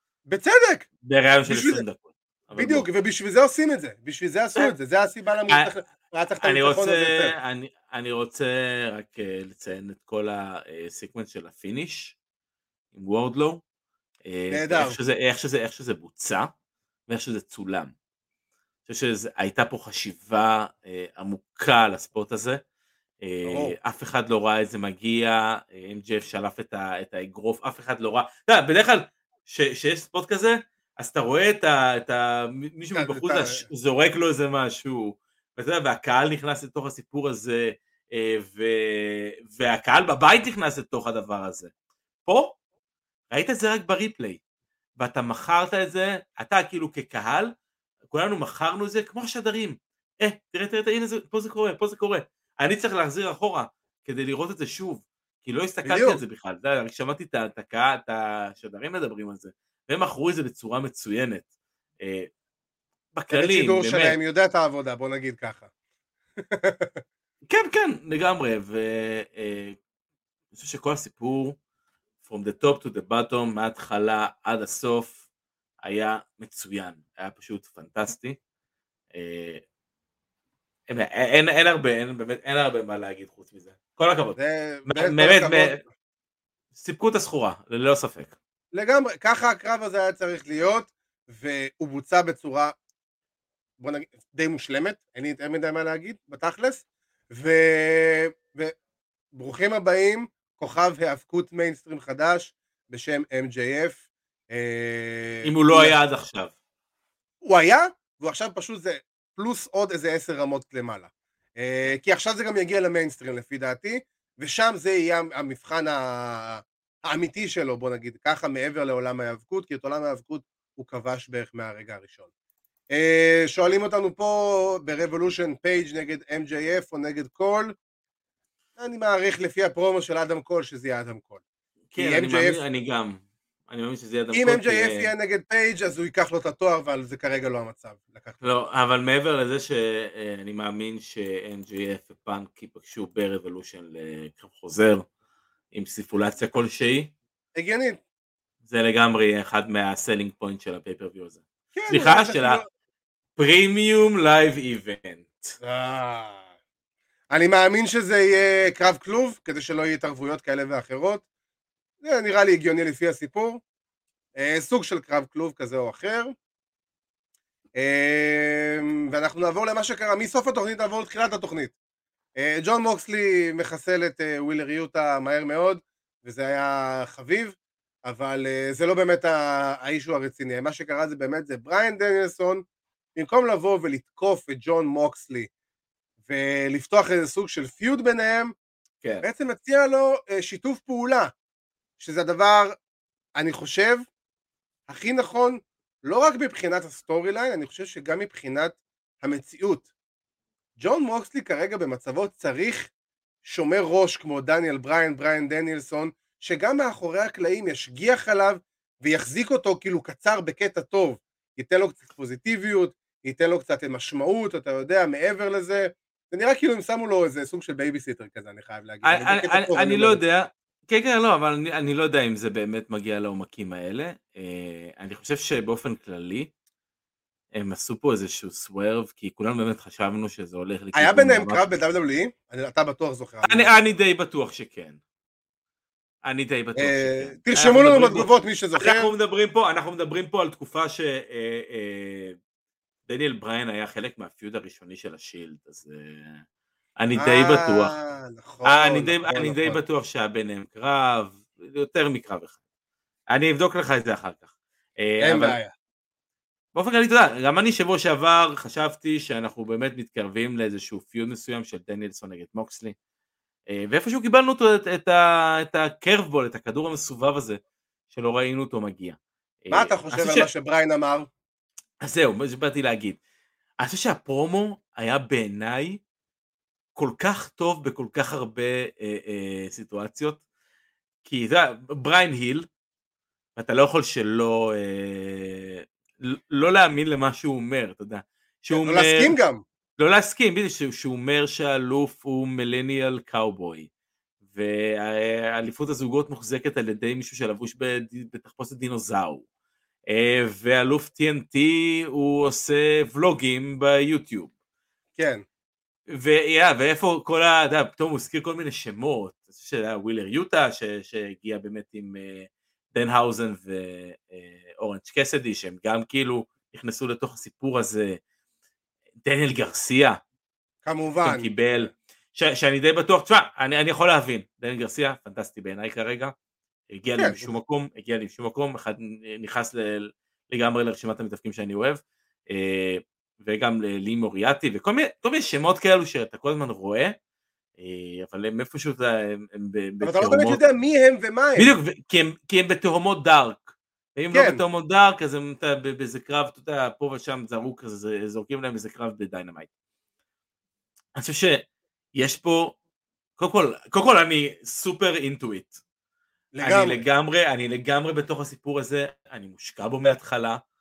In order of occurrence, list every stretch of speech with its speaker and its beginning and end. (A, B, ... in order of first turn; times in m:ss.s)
0:00.3-0:00.9 A
0:01.0-0:02.9 B
0:01.5-0:01.8 A
0:02.6-0:07.3 A
0:06.4-0:12.2 B
0:12.9-0:13.6 B
0:14.2-0:16.5 B
0:14.5-0:15.0 A
0:17.1-0:17.9 B
0:18.8-0:22.6 B
0:23.2-0:41.7 B
0:23.4-0:23.7 A
0:32.9-0:33.6 A
0:42.2-0:42.6 B
0:43.3-0:44.4 B
0:45.0-0:47.5 B
0:48.1-1:01.4 B
0:55.8-0:56.2 A
1:02.0-1:02.3 B
1:03.1-1:04.2 B
1:03.3-1:05.7 A
1:06.4-1:07.0 A
1:07.5-1:09.8 B
1:10.5-1:11.6 B
1:12.2-1:15.2 B
1:15.8-1:18.4 B
1:19.1-1:19.6 B
1:20.9-1:25.8 B
1:24.4-1:25.8 A
1:26.7-1:28.4 B
1:28.7-1:32.7 A
1:33.8-1:38.7 A
1:39.3-1:45.9 A
1:45.4-1:46.5 B
1:47.4-2:02.3 A
2:02.9-2:07.7 A
2:08.8-2:11.4 A
2:11.9-2:15.1 B
2:12.0-2:12.6 A
2:14.3-2:18.5 A
2:18.4-2:25.1 B
2:25.7-2:27.1 B
2:27.5-2:28.0 A
2:28.6-2:32.6 B
2:31.7-2:32.6 A
2:33.4-2:35.6 B
2:35.6-2:36.4 A
2:37.3-2:41.2 A
2:42.0-2:43.6 A
2:44.3-2:46.3 A
2:47.7-2:51.7 A
2:52.4-3:02.6 A
3:03.2-3:05.5 A
3:06.2-3:08.5 A
3:09.2-3:11.3 A
3:12.0-3:12.7 A
3:13.4-3:14.1 A
3:14.9-3:19.9 A
3:20.8-3:22.9 A
3:23.4-3:40.2 A
3:39.0-3:46.5 B
3:47.5-3:51.6 B
3:50.9-3:53.7 A
3:53.4-3:55.0 B
3:56.2-4:02.4 B
3:56.8-3:59.1 A
4:03.1-4:06.4 B
4:07.0-4:07.9 B
4:07.2-4:09.8 A
4:08.6-4:12.6 B
4:13.3-4:14.5 B
4:15.0-4:15.6 B
4:15.2-4:15.7 A
4:16.7-4:23.0 B
4:23.7-4:27.6 B
4:28.1-4:30.5 B
4:29.7-4:31.3 A
4:32.0-4:33.2 B
4:33.8-4:36.0 B
4:37.0-4:40.4 B
4:41.2-4:42.7 B
4:43.6-4:49.4 B
4:48.7-4:49.6 A
4:50.0-4:53.9 B
4:54.5-4:59.4 B
5:00.1-5:04.5 B
5:05.2-5:05.4 A
5:06.1-5:18.2 B
5:19.2-5:20.2 B
5:20.8-5:21.5 A
5:21.2-5:26.3 B
5:26.9-5:37.1 B
5:27.2-5:27.5 A
5:37.8-5:40.6 B
5:40.0-5:41.7 A
5:41.6-5:49.7 B
5:44.3-5:44.6 A
5:51.2-5:51.6 B
5:52.1-5:52.8 B
5:53.4-5:55.8 B
5:56.5-5:57.0 A
5:56.6-6:00.6 B